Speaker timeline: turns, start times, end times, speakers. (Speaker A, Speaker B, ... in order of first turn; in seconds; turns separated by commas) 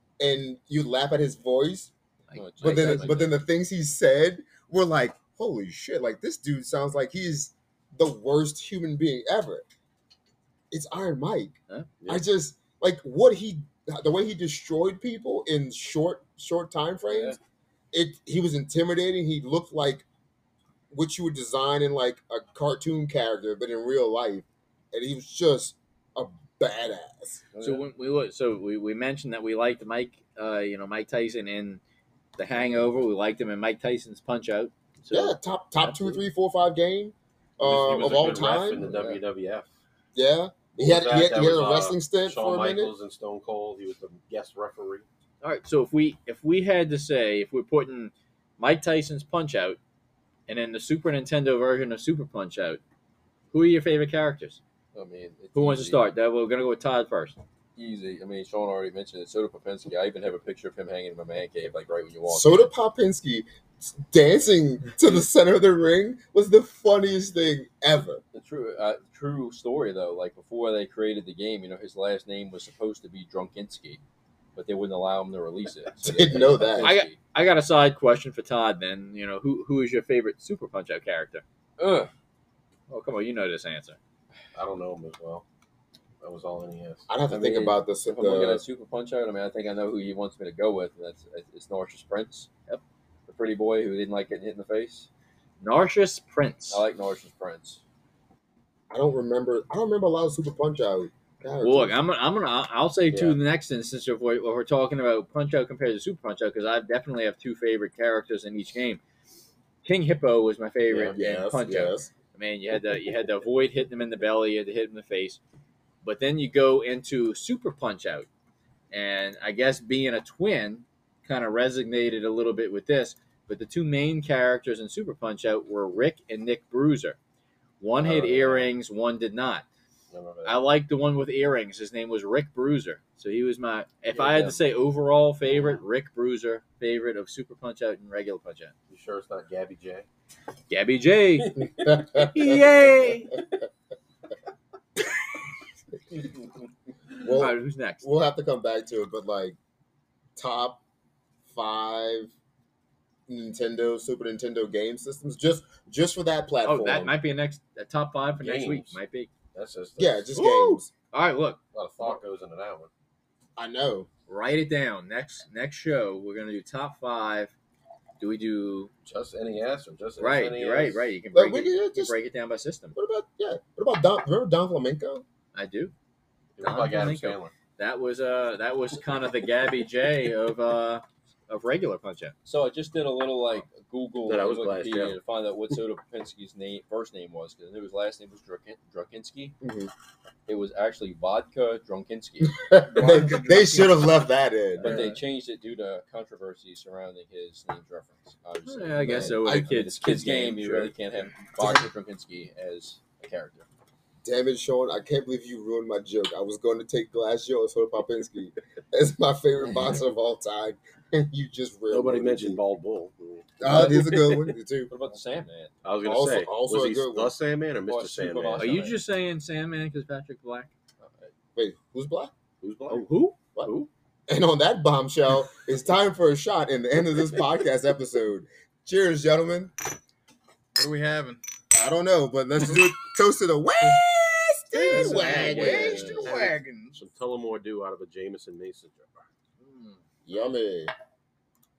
Speaker A: 0.2-1.9, Speaker B: 2.3-3.2, Speaker C: 2.3-3.3, Speaker A: 2.6-9.7, Speaker A: 10.7-17.4, Speaker D: 12.0-12.2, Speaker A: 17.9-20.1, Speaker A: 20.9-27.4, Speaker C: 27.5-27.8, Speaker B: 27.6-31.8, Speaker B: 32.4-36.2, Speaker A: 35.1-38.9, Speaker D: 37.6-39.7, Speaker C: 38.8-39.2, Speaker A: 40.1-42.9, Speaker D: 40.8-45.0, Speaker B: 45.4-49.8, Speaker B: 50.5-52.8, Speaker B: 53.5-54.6, Speaker C: 54.9-56.0, Speaker B: 55.5-57.4, Speaker C: 57.8-62.7, Speaker A: 62.3-68.2, Speaker C: 68.3-74.0, Speaker C: 74.6-77.2, Speaker A: 76.0-76.9, Speaker B: 76.8-81.4, Speaker C: 81.8-82.1, Speaker B: 82.9-84.0, Speaker D: 84.5-85.4, Speaker D: 86.2-87.1, Speaker A: 87.1-88.6, Speaker C: 87.3-92.5, Speaker C: 93.3-95.1, Speaker B: 95.6-96.8, Speaker C: 96.7-97.8, Speaker A: 98.9-102.0, Speaker B: 101.6-109.0, Speaker D: 103.1-103.4, Speaker B: 109.8-115.4, Speaker A: 111.2-112.1, Speaker B: 116.0-118.3, Speaker B: 118.9-127.2, Speaker B: 127.8-129.7, Speaker D: 128.0-128.7, Speaker D: 130.1-130.7, Speaker B: 130.4-138.7, Speaker C: 134.2-134.6, Speaker D: 138.9-140.1, Speaker B: 140.7-143.4, Speaker A: 141.8-142.4, Speaker A: 147.2-149.6, Speaker B: 147.3-148.0, Speaker A: 150.4-150.8, Speaker A: 151.5-152.3, Speaker A: 153.3-157.1, Speaker B: 156.7-159.3, Speaker D: 158.4-159.0, Speaker D: 159.5-160.3, Speaker A: 160.0-160.9, Speaker B: 160.3-162.1, Speaker D: 161.7-162.9, Speaker A: 163.6-164.1, Speaker B: 164.3-167.5, Speaker B: 168.2-168.9, Speaker D: 169.1-171.1, Speaker B: 170.2-173.0, Speaker A: 171.3-172.2, Speaker A: 173.0-175.2, Speaker B: 175.5-175.9, Speaker D: 176.6-177.5, Speaker B: 176.6-182.3, Speaker C: 182.5-189.6, Speaker D: 184.3-185.2, Speaker A: 189.6-189.9, Speaker C: 190.5-192.7, Speaker A: 192.4-195.1, Speaker E: 192.9-194.2, Speaker C: 194.8-203.7, Speaker B: 198.7-200.9, Speaker A: 199.1-199.7, Speaker A: 201.6-201.8, Speaker A: 204.2-212.6, Speaker D: 211.9-214.6, Speaker A: 213.6-214.9, Speaker C: 214.9-215.7, Speaker D: 215.8-218.8, Speaker A: 216.0-217.3, Speaker C: 217.9-219.0, Speaker B: 218.6-220.7, Speaker C: 221.0-221.3, Speaker A: 221.6-222.3, Speaker D: 222.6-223.9, Speaker B: 222.9-223.3, Speaker A: 224.3-229.7, Speaker E: 230.8-231.4, Speaker A: 231.7-236.3, Speaker E: 234.7-237.1, Speaker B: 234.9-236.2, Speaker C: 235.5-236.0, Speaker D: 235.7-239.2, Speaker B: 239.6-240.0, Speaker A: 240.3-240.9